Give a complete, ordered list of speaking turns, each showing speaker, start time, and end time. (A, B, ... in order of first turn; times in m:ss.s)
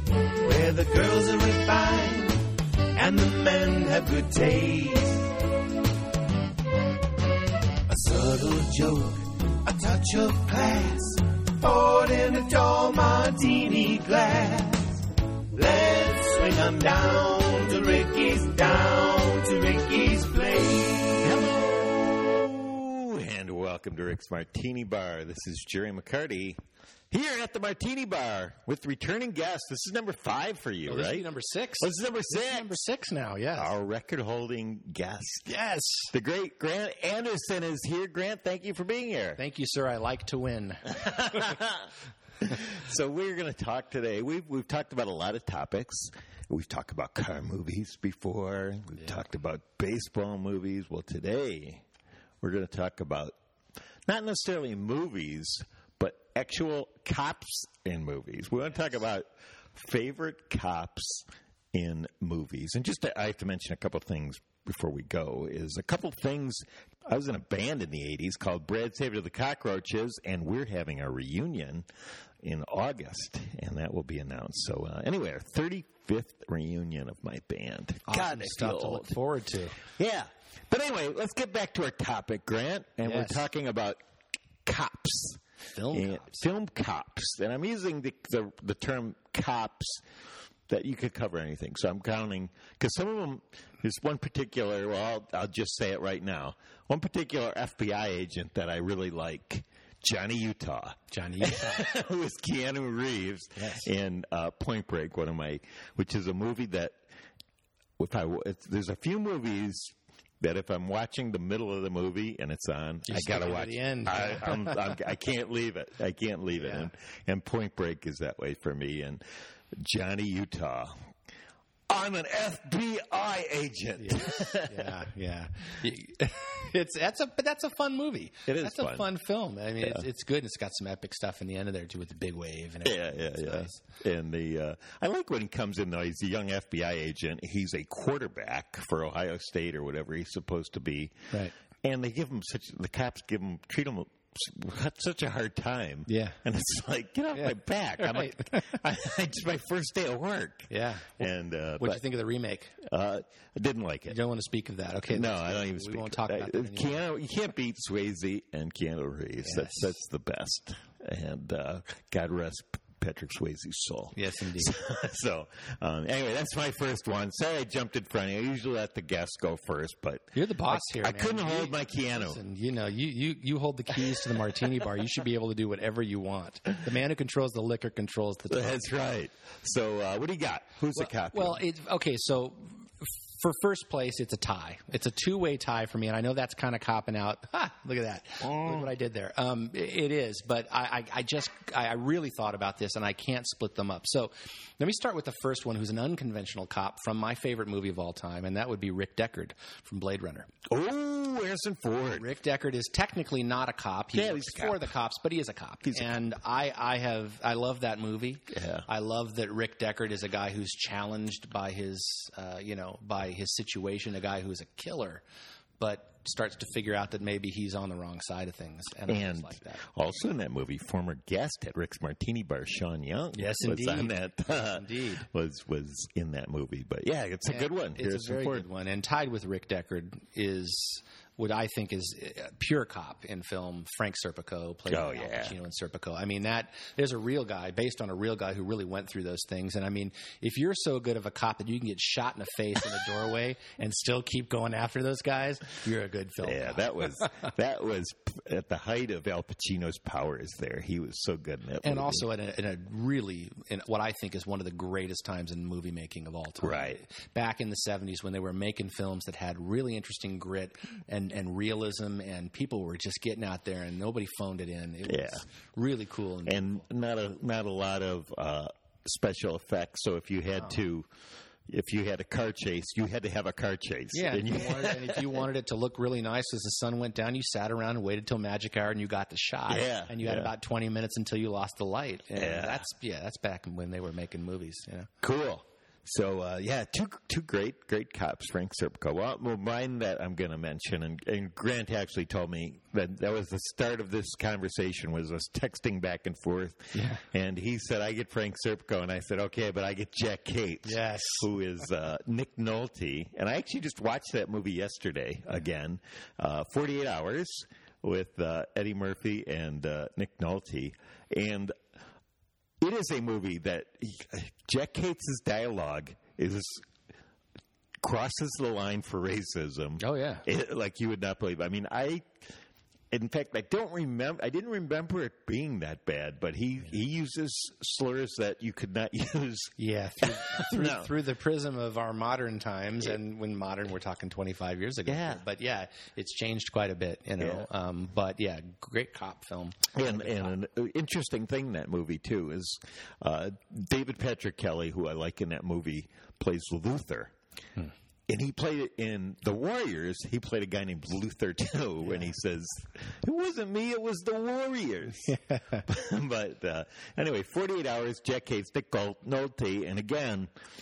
0:00.4-0:05.4 A
0:07.9-0:21.4 A
0:21.2-0:26.6 B
0:27.1-0:31.3 B
0:30.9-0:33.7 C
0:31.8-0:32.8 B
0:33.6-0:35.5 B
0:35.5-0:36.1 C
0:36.1-0:39.4 B
0:39.4-0:41.4 C
0:40.9-0:41.9 B
0:42.4-0:51.8 B
0:52.4-0:53.4 B
0:54.1-1:11.9 B
1:12.4-1:19.2 B
1:18.1-1:19.8 C
1:20.0-1:24.0 B
1:23.0-1:23.5 C
1:24.6-1:25.4 B
1:25.7-1:26.4 C
1:25.9-1:30.0 B
1:30.7-1:47.0 B
1:41.1-1:41.9 C
1:43.6-1:43.9 C
1:48.0-2:00.9 B
1:53.1-1:55.0 C
1:56.6-1:56.9 C
2:01.9-2:04.9 B
2:04.0-2:13.8 C
2:08.5-2:09.1 B
2:12.8-2:21.3 B
2:21.8-2:32.0 B
2:26.1-2:26.4 C
2:27.3-2:28.8 C
2:30.7-2:31.3 C
2:31.8-2:32.8 C
2:32.8-2:34.2 B
2:34.1-2:37.0 C
2:35.1-2:52.4 B
2:39.4-2:39.9 C
2:44.1-2:44.8 C
2:50.3-2:58.8 C
2:58.5-3:01.6 B
3:01.0-3:20.5 C
3:08.4-3:08.9 B
3:20.7-3:22.3 B
3:22.2-3:35.2 C
3:24.1-3:24.9 B
3:25.8-3:26.2 B
3:28.5-3:28.9 B
3:35.8-3:39.8 C
3:39.1-3:48.7 B
3:43.3-3:45.3 C
3:47.5-4:07.5 C
3:54.9-3:55.6 B
4:06.4-4:12.3 B
4:11.8-4:26.8 C
4:16.6-4:17.0 B
4:25.0-4:25.4 B
4:26.5-4:31.1 B
4:31.7-4:35.5 B
4:34.1-4:45.1 C
4:39.7-4:40.5 B
4:42.4-4:42.8 B
4:45.2-5:11.8 B
4:56.9-4:57.2 C
5:00.9-5:01.5 C
5:12.8-5:16.8 B
5:18.0-5:22.3 B
5:20.0-5:20.4 C
5:23.1-5:31.1 B
5:29.8-5:40.6 C
5:35.1-5:35.4 B
5:37.4-5:37.7 B
5:39.9-5:47.3 B
5:48.3-6:00.5 B
5:55.3-5:55.8 C